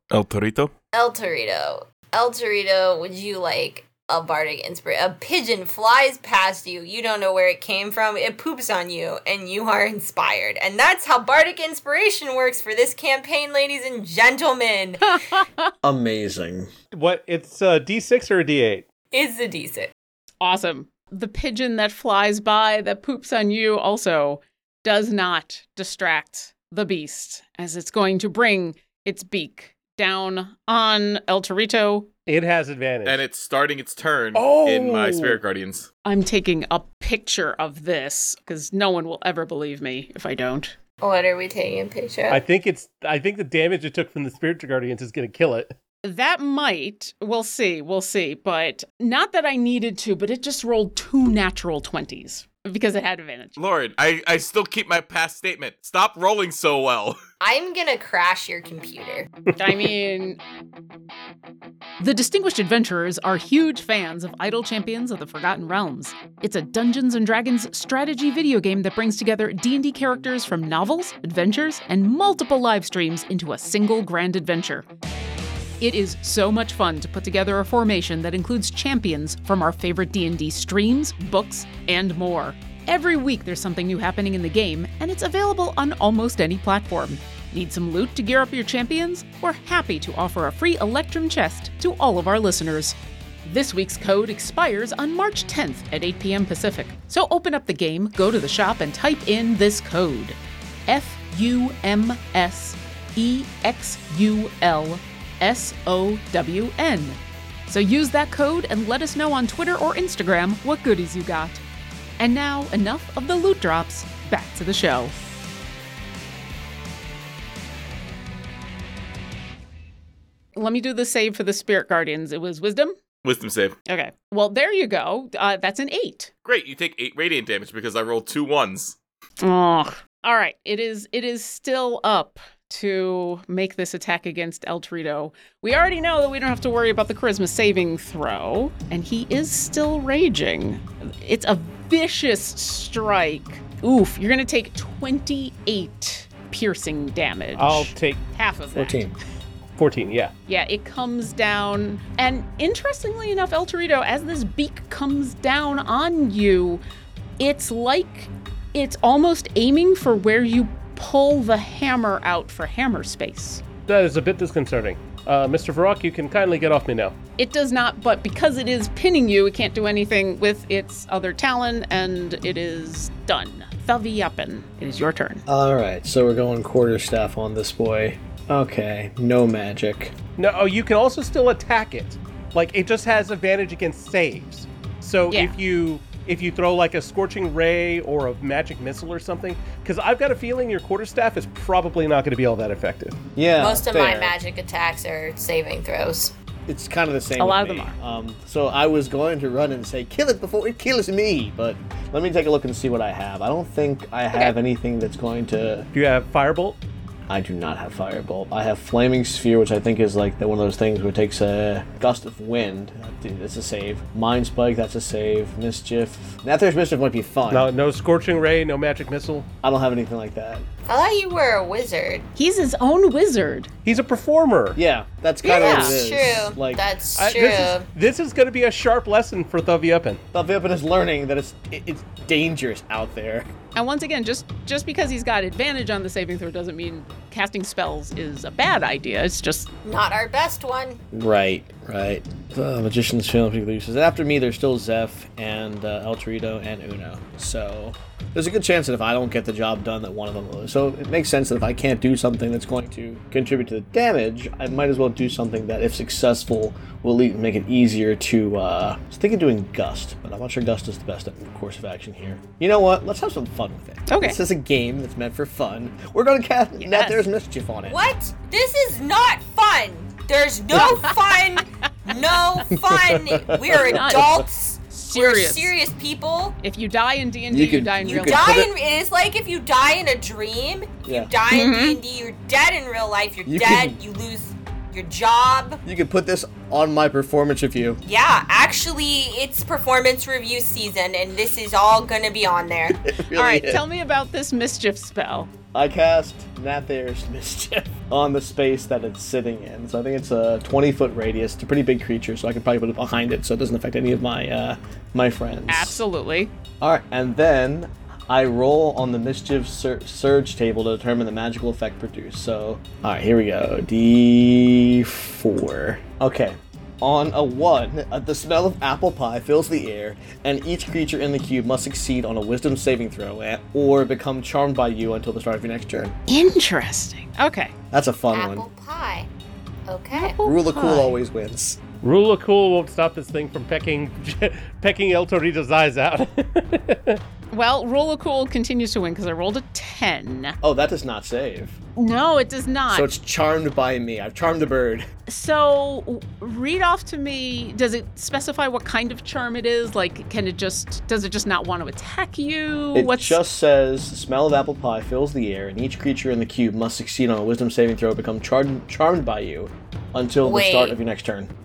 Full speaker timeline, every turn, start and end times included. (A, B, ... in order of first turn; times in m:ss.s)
0:00.1-0:00.7 A
0:00.9-0:15.2 B
0:15.1-0:15.7 C
0:15.8-0:16.7 D
0:16.9-0:18.9 E
0:19.1-0:19.9 B
0:20.4-0:32.1 C
0:32.3-0:33.2 E
0:33.0-0:35.9 A
0:34.4-0:35.4 E
0:36.0-0:40.7 C
0:41.0-0:42.4 B
0:42.3-0:45.7 E
0:46.0-0:53.6 C
0:53.6-0:57.2 A
0:57.4-0:59.3 B
0:59.6-1:00.4 C
1:02.0-1:14.9 C
1:15.8-1:51.6 C
1:52.2-1:55.2 C
2:00.6-2:03.0 C
2:03.2-2:03.8 A
2:03.9-2:06.3 C
2:06.4-2:09.0 A
2:09.4-2:29.0 C
2:27.6-2:28.2 E
2:28.8-2:29.1 D
2:29.8-2:30.3 E
2:30.5-2:36.8 C
2:37.4-2:43.6 C
2:43.9-2:47.2 E
2:47.4-2:55.4 C
2:55.5-3:00.2 D
3:00.4-3:13.2 E
3:05.3-3:05.6 C
3:13.4-3:14.4 D
3:13.6-3:16.3 B
3:16.7-3:25.9 D
3:17.4-3:17.9 C
3:25.9-3:26.8 E
3:27.3-3:37.7 D
3:37.5-3:39.5 E
3:39.6-3:40.7 D
3:40.9-3:42.3 B
3:42.4-3:43.7 C
3:43.8-3:44.8 E
3:44.8-3:46.8 D
3:45.4-3:46.0 C
3:45.4-3:47.9 B
3:47.2-3:50.2 E
3:50.3-3:53.5 D
3:53.8-3:59.7 C
3:59.8-4:01.0 B
4:01.1-4:28.0 D
4:24.1-4:24.4 C
4:26.8-4:27.2 C
4:27.9-4:36.6 B
4:30.8-4:31.1 C
4:32.7-4:34.5 D
4:33.7-4:34.3 C
4:34.9-4:35.7 C
4:36.6-4:38.6 C
4:37.5-4:38.7 D
4:38.0-4:45.8 B
4:41.1-4:41.3 D
4:41.5-4:42.0 C
4:43.5-4:44.0 D
4:45.8-4:48.0 D
4:48.0-4:53.0 B
4:53.0-4:53.8 D
4:53.3-4:55.5 C
4:55.7-5:06.0 D
5:05.7-5:06.5 C
5:06.8-5:26.2 D
5:26.3-5:27.7 C
5:27.9-5:28.6 D
5:28.3-5:29.3 B
5:29.9-5:30.4 B
5:30.1-5:31.2 C
5:30.4-5:31.8 D
5:32.0-5:37.2 E
5:37.5-5:40.6 C
5:40.6-5:41.8 D
5:42.0-5:43.1 C
5:42.9-5:45.1 D
5:45.3-5:53.4 C
5:52.9-6:01.5 D
6:00.4-6:01.0 B